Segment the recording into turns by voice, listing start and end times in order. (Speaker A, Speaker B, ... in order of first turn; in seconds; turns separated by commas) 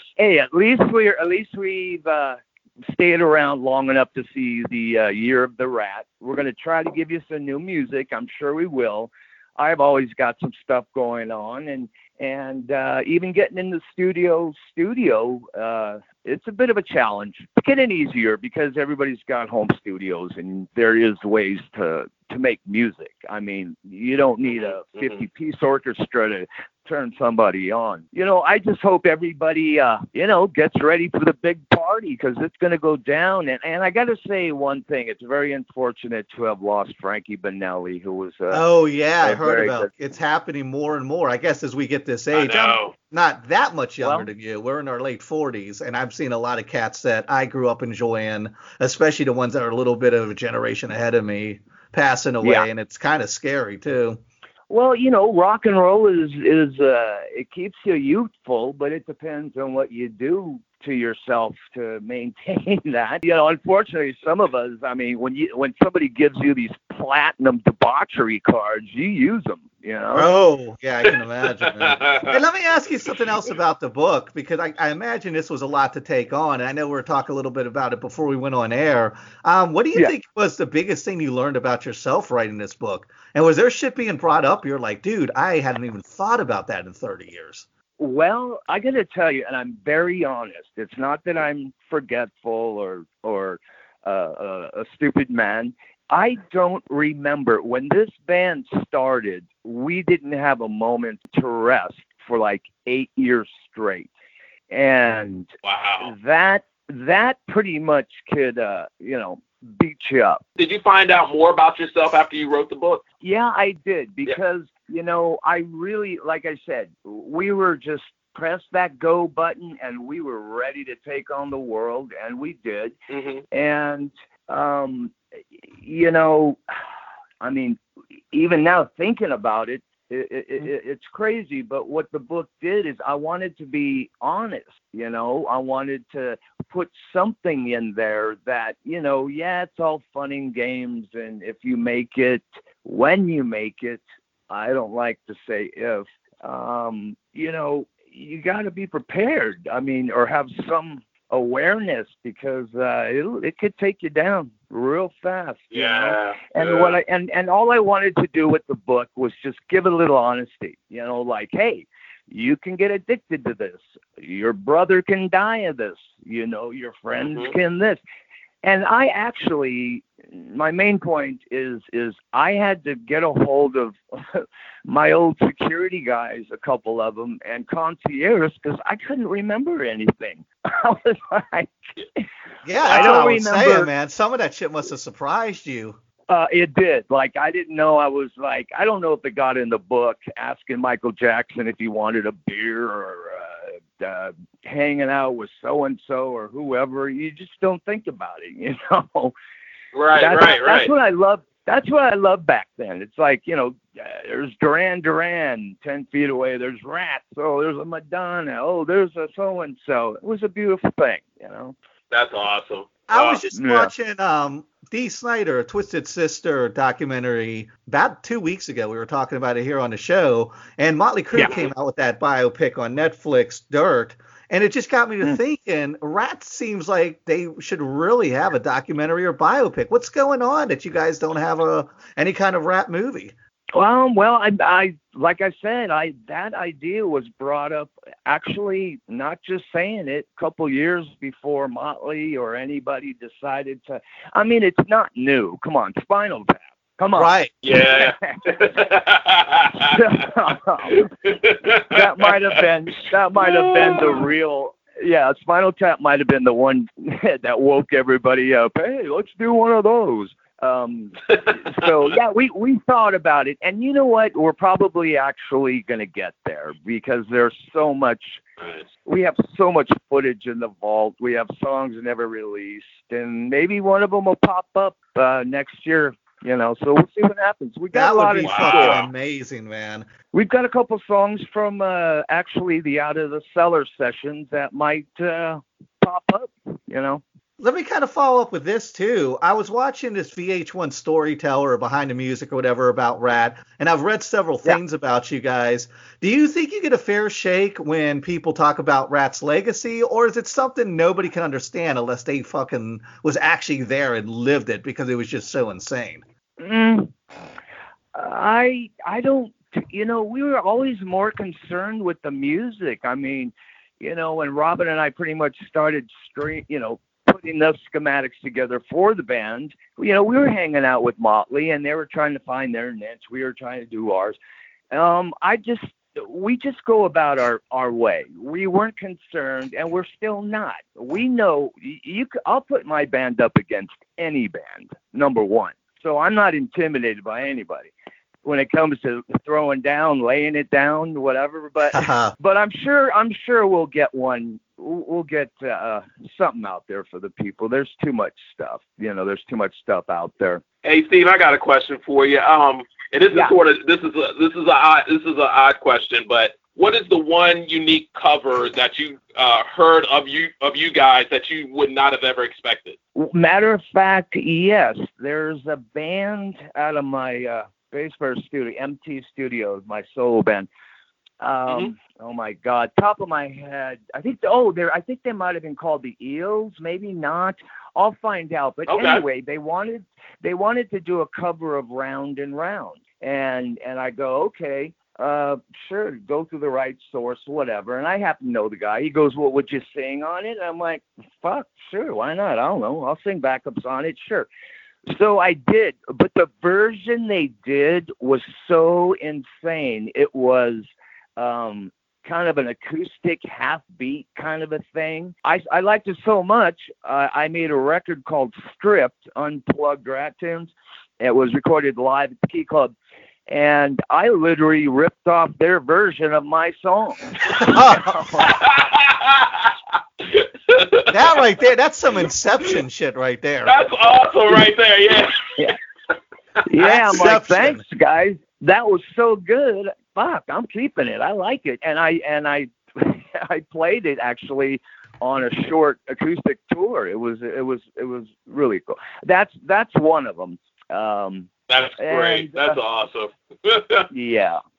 Speaker A: 0.2-38.6, Speaker B: 24.5-25.2, Speaker C: 38.5-54.2, Speaker A: 39.2-39.9, Speaker B: 42.3-42.9, Speaker A: 44.0-44.3, Speaker A: 52.4-52.7, Speaker A: 54.7-70.3, Speaker C: 70.1-87.7, Speaker B: 71.5-72.4, Speaker A: 88.0-104.1, Speaker A: 104.7-105.5, Speaker B: 105.6-106.1, Speaker A: 106.0-110.4, Speaker B: 110.6-113.0, Speaker A: 113.2-122.9, Speaker B: 123.1-123.4, Speaker A: 123.5-125.2, Speaker A: 125.7-126.6, Speaker A: 127.4-127.8, Speaker A: 128.3-168.0, Speaker B: 155.7-157.0, Speaker A: 168.6-182.2, Speaker C: 182.6-186.0, Speaker A: 182.8-183.9, Speaker A: 186.3-199.3, Speaker B: 199.9-200.9, Speaker A: 200.1-211.8, Speaker B: 212.1-213.4, Speaker C: 213.1-233.3, Speaker A: 213.5-213.9, Speaker B: 221.4-221.6, Speaker A: 233.7-248.4, Speaker C: 247.2-247.5, Speaker B: 247.6-249.9, Speaker A: 249.8-251.1, Speaker B: 250.9-252.3, Speaker A: 251.8-268.4, Speaker B: 253.4-254.2, Speaker A: 269.0-279.0, Speaker C: 277.9-280.1, Speaker B: 278.4-279.1, Speaker A: 280.3-287.2, Speaker C: 287.6-306.2, Speaker A: 306.6-307.1, Speaker A: 308.1-324.4, Speaker A: 324.9-337.9, Speaker A: 338.4-350.6, Speaker C: 341.9-342.3, Speaker B: 350.8-362.9, Speaker A: 363.1-370.7, Speaker A: 371.4-394.5, Speaker B: 378.9-379.2, Speaker A: 395.1-412.9, Speaker A: 413.5-418.5, Speaker C: 417.6-418.4, Speaker B: 418.4-419.7, Speaker B: 420.3-421.1, Speaker C: 421.1-423.8, Speaker B: 423.6-425.7, Speaker A: 426.7-442.8, Speaker C: 426.8-427.8, Speaker B: 441.7-444.1, Speaker A: 444.1-444.6